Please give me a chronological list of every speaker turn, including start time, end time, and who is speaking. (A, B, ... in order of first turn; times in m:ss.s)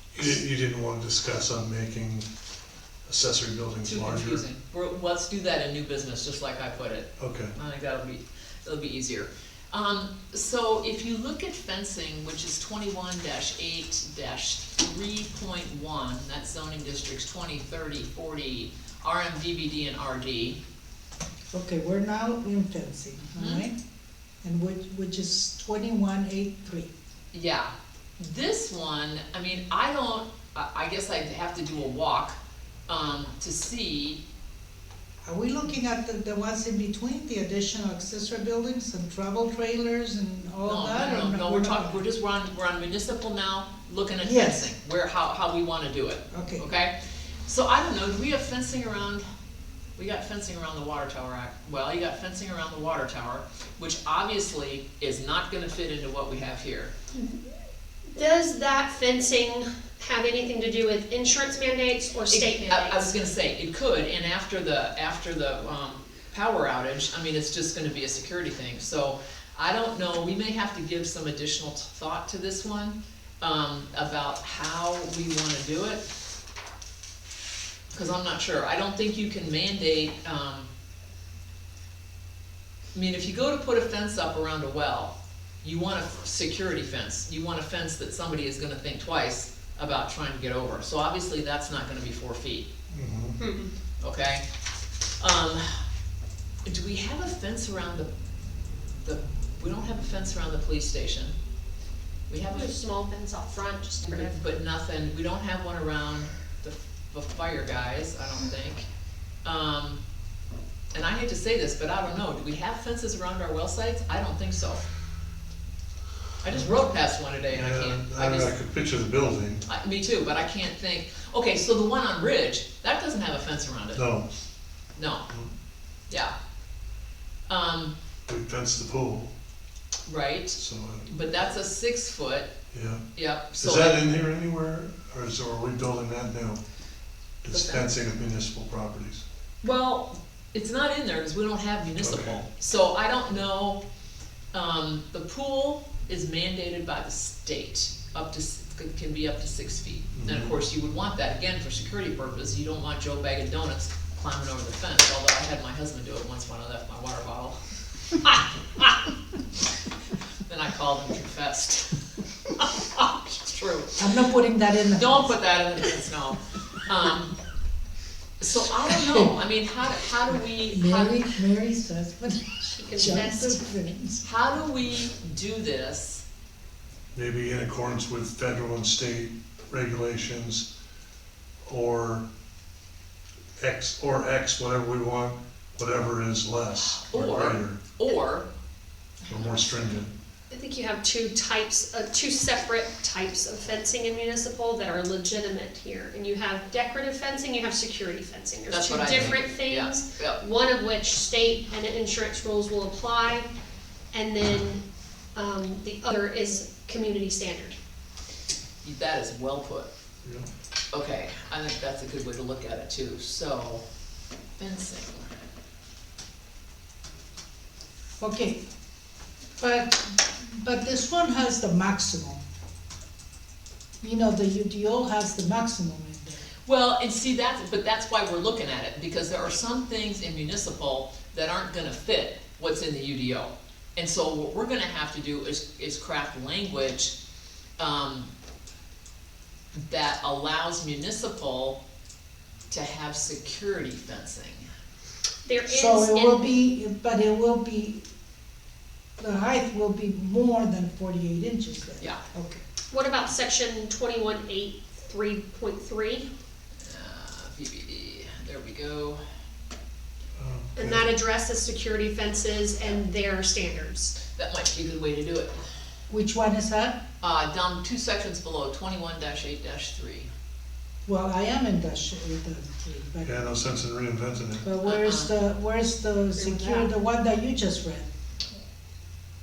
0:00.1-0:02.3 A
0:03.1-0:04.4 A
0:03.8-0:20.6 B
0:07.2-0:07.5 A
0:21.5-0:23.8 C
0:23.4-0:23.6 B
0:24.4-0:26.9 C
0:27.3-0:32.4 B
0:32.9-0:34.2 B
0:35.2-0:42.0 C
0:40.6-0:46.9 B
0:44.2-0:44.7 C
0:46.3-0:46.7 C
0:47.4-0:49.2 B
0:50.0-0:56.9 B
0:57.1-0:57.4 D
0:58.1-1:03.1 D
1:02.3-1:16.0 B
1:17.9-1:20.7 B
1:22.9-1:32.7 B
1:32.9-1:33.4 A
1:33.4-1:33.7 D
1:34.0-1:34.4 B
1:35.2-1:35.8 B
1:36.6-1:38.1 B
1:39.0-1:41.3 B
1:42.3-1:42.7 B
1:42.4-1:44.4 D
1:44.1-1:48.9 B
1:49.4-1:50.0 B
1:50.9-1:54.8 B
1:56.4-1:58.5 B
1:57.5-1:59.6 A
1:59.6-2:04.0 B
2:03.9-2:04.3 A
2:05.0-2:05.2 B
2:07.5-2:07.9 B
2:08.3-2:09.3 A
2:10.1-2:12.5 B
2:10.5-2:11.1 A
2:12.7-2:13.0 A
2:13.1-2:14.1 B
2:13.6-2:16.6 A
2:17.4-2:19.2 A
2:17.5-2:18.0 B
2:19.6-2:23.8 B
2:22.0-2:22.4 A
2:24.5-2:37.6 B
2:30.2-2:30.6 A
2:38.2-2:39.0 B
2:40.5-2:42.0 B
2:42.5-2:44.0 B
2:44.0-2:45.4 C
2:44.9-2:47.3 B
2:48.4-2:51.3 B
2:48.9-2:49.3 C
2:50.6-2:54.2 C
2:52.6-2:53.6 D
2:54.2-2:56.2 B
2:57.1-3:00.7 A
3:01.6-3:02.2 A
3:03.6-3:07.8 A
3:06.9-3:08.4 B
3:09.2-3:09.6 B
3:09.3-3:10.1 A
3:10.5-3:23.5 D
3:18.7-3:20.4 B
3:24.1-3:24.8 D
3:25.3-3:27.8 D
3:28.8-3:29.9 B
3:30.9-3:33.8 B
3:34.6-3:35.3 B
3:38.2-3:38.6 C
3:39.6-3:42.4 C
3:44.0-3:46.4 C
3:46.6-3:57.1 B
3:57.8-3:58.3 B
3:59.9-4:01.8 B
4:02.7-4:04.7 B
4:05.4-4:06.5 D
4:05.7-4:08.0 C
4:09.2-4:12.6 C
4:12.9-4:16.3 D
4:16.8-4:19.2 B
4:20.4-4:21.1 A
4:20.8-4:24.2 D
4:24.3-4:25.6 B
4:26.1-4:27.0 C
4:27.2-4:30.3 B
4:31.0-4:33.5 C
4:33.2-4:34.7 A
4:34.6-4:38.1 C
4:34.8-4:35.3 B
4:36.3-4:36.9 D